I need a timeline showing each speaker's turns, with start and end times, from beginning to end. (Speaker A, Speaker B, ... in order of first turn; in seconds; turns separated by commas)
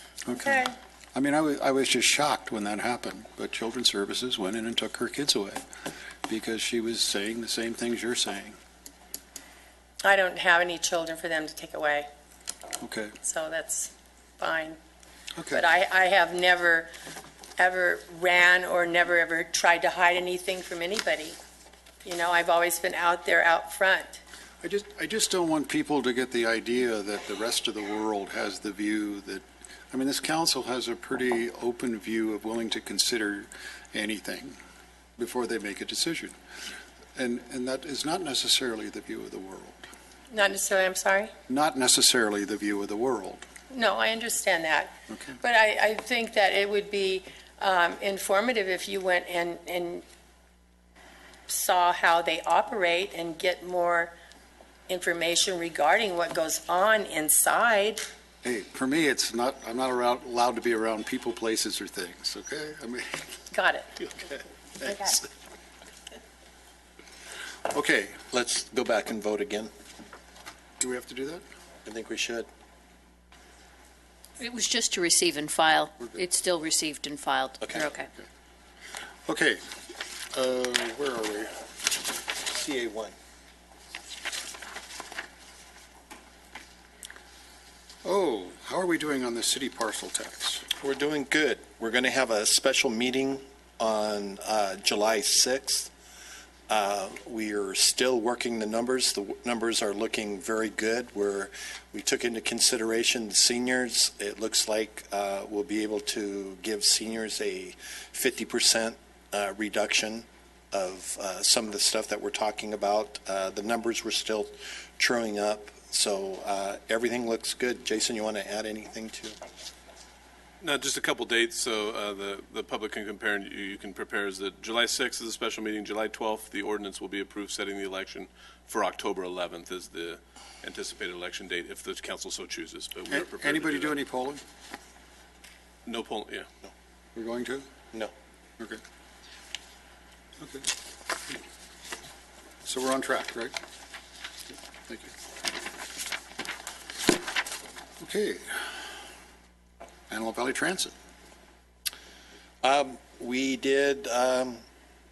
Speaker A: 0.2-5.6, Speaker B: 0.4-0.8, Speaker A: 6.3-8.6, Speaker B: 10.0-12.1, Speaker A: 12.8-13.1, Speaker B: 13.2-14.8, Speaker A: 15.4-15.7, Speaker B: 15.5-16.9, Speaker B: 17.6-21.4, Speaker B: 22.0-24.2, Speaker A: 24.6-34.6, Speaker A: 35.2-36.3, Speaker A: 37.1-39.9, Speaker B: 40.3-41.3, Speaker A: 41.5-43.4, Speaker B: 43.7-50.0, Speaker A: 45.1-45.4, Speaker B: 51.5-54.1, Speaker B: 54.9-58.0, Speaker A: 58.4-63.2, Speaker B: 63.5-63.9, Speaker A: 67.7-68.2, Speaker C: 68.3-69.7, Speaker A: 70.8-71.4, Speaker C: 71.8-72.5, Speaker D: 74.4-78.0, Speaker C: 77.6-77.9, Speaker A: 79.2-79.6, Speaker A: 80.3-81.5, Speaker C: 82.4-83.1, Speaker A: 88.0-90.7, Speaker C: 90.8-95.9, Speaker C: 96.7-119.4, Speaker E: 120.6-133.9, Speaker A: 133.1-134.4, Speaker E: 135.8-136.5, Speaker A: 137.1-137.7, Speaker A: 140.4-140.7, Speaker A: 142.7-143.5, Speaker A: 144.9-145.1, Speaker A: 148.0-148.6, Speaker A: 150.1-150.9, Speaker C: 152.6-154.6